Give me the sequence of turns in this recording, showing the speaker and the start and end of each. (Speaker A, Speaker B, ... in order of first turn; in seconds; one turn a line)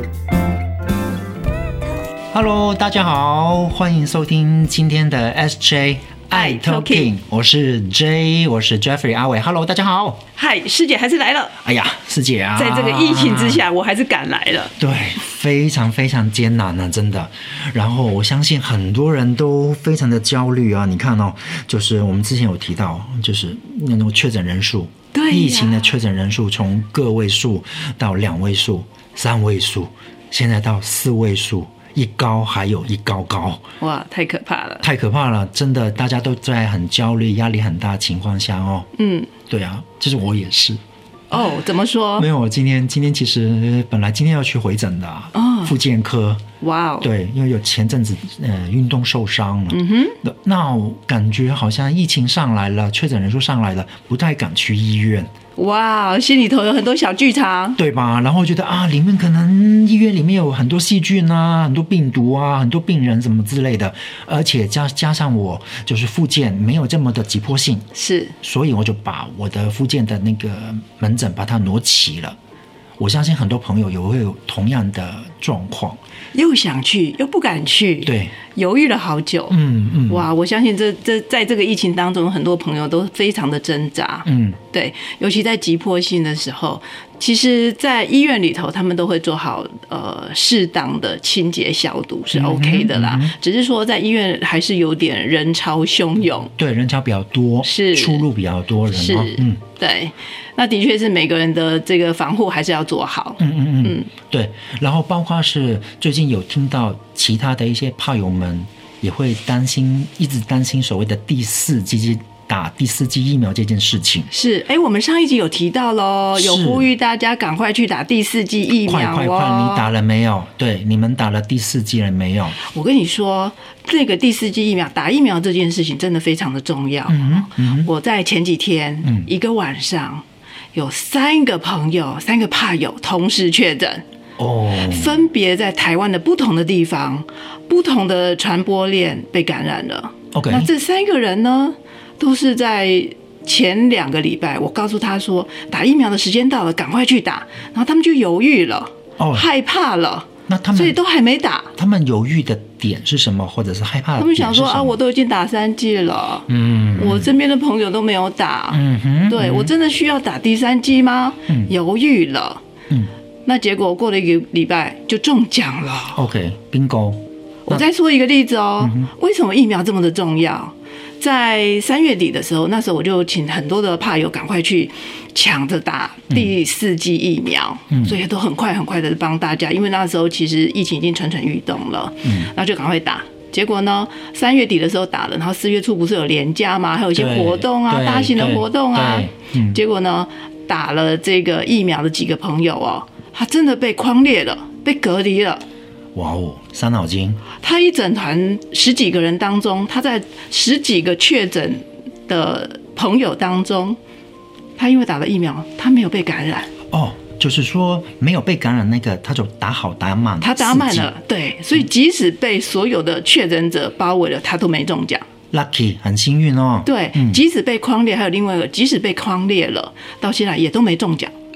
Speaker A: 2.3-10.2
Speaker B: 6.3-7.1
Speaker B: 10.3-11.6
Speaker A: 11.6-13.6
Speaker B: 12.6-14.7
Speaker A: 14.8-33.6
Speaker B: 25.1-26.0
Speaker B: 33.8-34.9
Speaker A: 34.8-38.9
Speaker B: 38.9-39.3
Speaker A: 39.5-40.8
Speaker B: 41.3-42.3
Speaker A: 42.2-46.4
Speaker B: 45.3-45.7
Speaker B: 46.6-47.1
Speaker A: 47.0-55.3
Speaker B: 49.7-50.2
Speaker B: 55.5-57.8
Speaker A: 57.8-67.9
Speaker B: 67.9-68.3
Speaker A: 68.4-72.4
Speaker A: 73.0-76.0
Speaker B: 76.3-79.5
Speaker A: 78.0-78.4
Speaker A: 79.5-80.3
Speaker B: 80.1-96.5
Speaker A: 84.2-84.6
Speaker A: 92.3-93.3
Speaker A: 96.6-99.6
Speaker B: 97.6-98.2
Speaker B: 98.9-104.1
Speaker A: 103.4-114.3
Speaker B: 114.3-119.9
Speaker A: 116.3-116.9
Speaker A: 118.8-122.5
Speaker B: 122.6-134.0
Speaker A: 127.1-127.9
Speaker A: 129.0-129.3
Speaker A: 134.4-135.2
Speaker B: 134.7-151.7
Speaker A: 140.3-140.7
Speaker A: 149.2-149.5
Speaker A: 150.5-151.0
Speaker A: 151.7-155.0
Speaker B: 154.2-162.6
Speaker A: 156.5-157.3
Speaker A: 158.7-159.7
Speaker A: 161.5-161.7
Speaker B: 163.4-166.2
Speaker A: 166.1-167.8
Speaker B: 167.7-195.6
Speaker A: 168.8-169.1
Speaker A: 177.9-178.2
Speaker A: 182.2-182.5
Speaker A: 187.1-189.8
Speaker A: 196.1-197.4
Speaker B: 197.6-204.0
Speaker B: 204.8-206.7
Speaker A: 206.9-211.1
Speaker B: 210.4-215.2
Speaker A: 215.5-217.4
Speaker B: 216.8-221.3